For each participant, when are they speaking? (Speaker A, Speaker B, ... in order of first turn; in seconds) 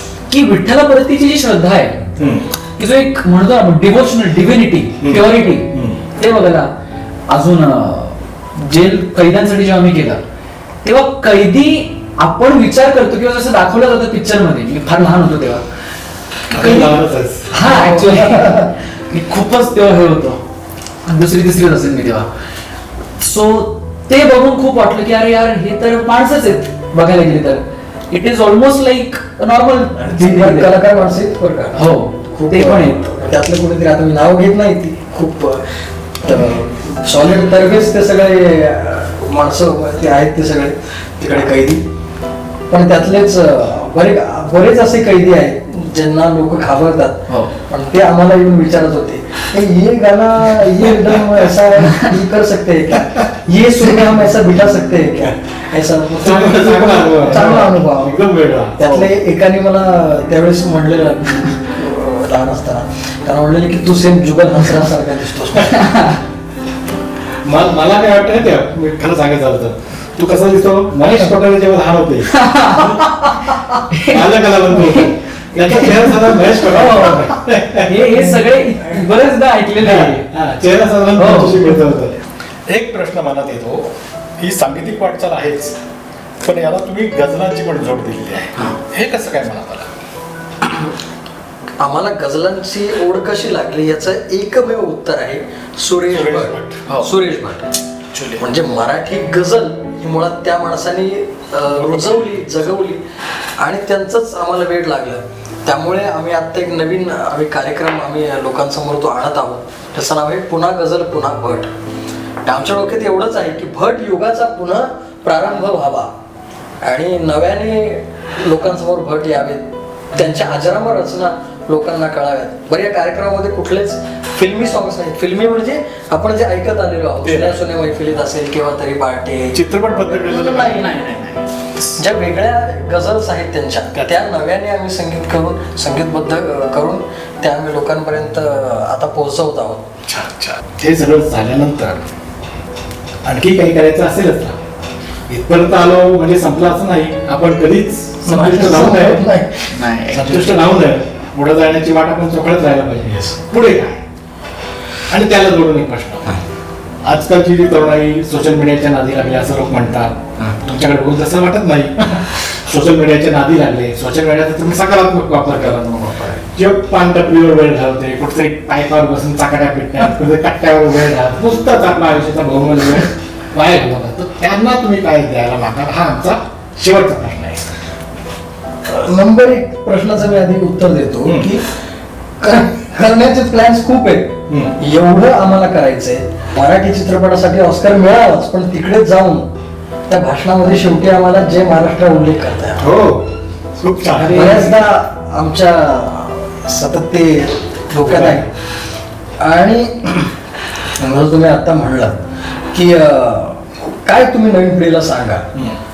Speaker A: 0.3-2.1, 2.8-6.7, 7.3-10.2, 10.8-15.6, 16.5-17.0, 17.5-20.4, 21.1-22.3, 23.2-30.7, 31.8-33.1, 47.3-47.5, 51.9-52.1, 65.8-66.2, 72.3-75.1, 75.7-80.2, 81.2-81.8, 98.1-98.4, 130.7-132.0, 149.7-150.5
Speaker B: 2.2-2.5, 5.0-6.0, 16.5-17.5, 56.2-58.9, 67.5-72.3, 74.1-78.0, 79.8-85.8, 86.4-89.9, 96.1-96.8, 101.7-102.4, 127.2-127.6, 129.5-130.9, 140.1-142.0, 143.2-144.6, 145.3-149.2, 150.1-154.0, 155.1-156.4, 157.0-166.0, 166.5-177.7, 181.2-181.5, 184.5-184.8, 192.8-194.8, 198.0-198.4
Speaker C: 17.6-18.7, 30.1-35.6, 36.2-41.8, 42.7-58.2, 58.8-65.9, 91.8-97.7, 98.4-103.0, 103.6-111.7, 112.5-116.1, 116.8-131.1, 131.9-139.8, 148.2-149.8, 165.6-166.4, 178.9-181.6, 182.4-189.5, 190.1-192.9, 194.2-198.5, 199.4-200.3, 201.0-202.2, 202.7-205.4